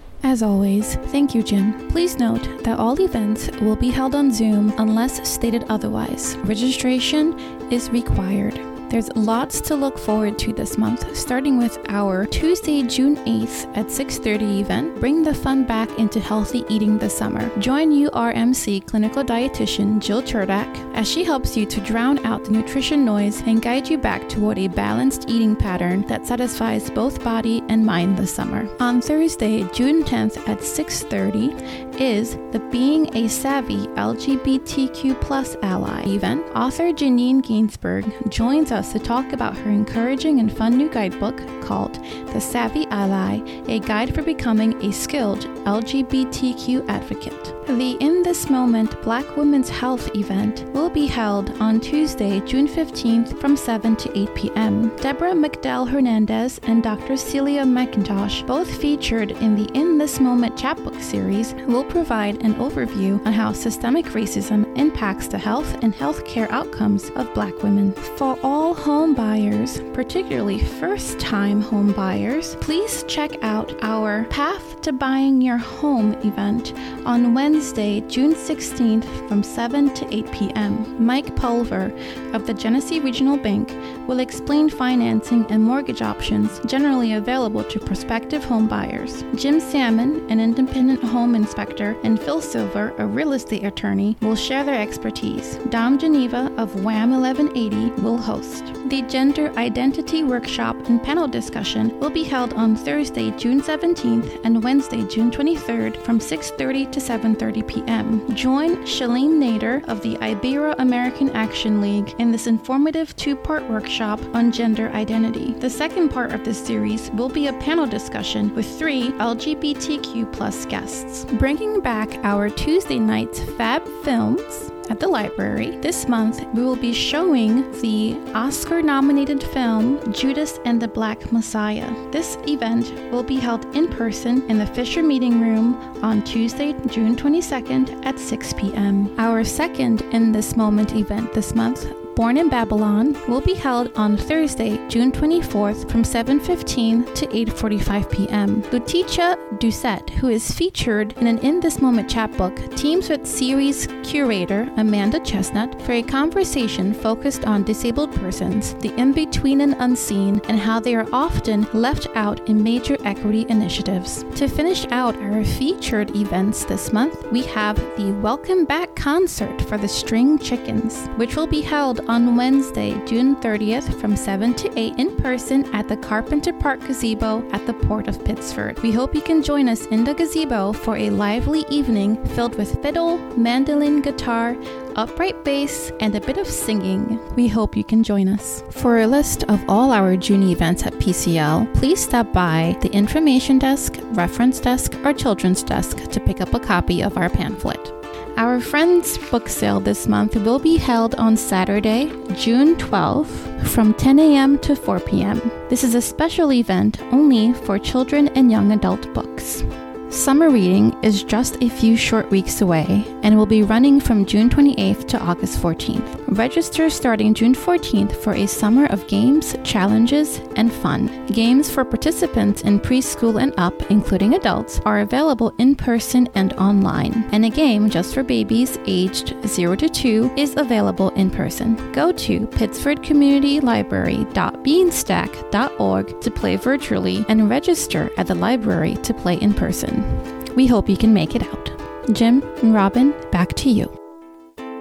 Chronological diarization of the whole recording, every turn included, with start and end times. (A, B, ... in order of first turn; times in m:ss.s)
0:00.2-4:03.9 A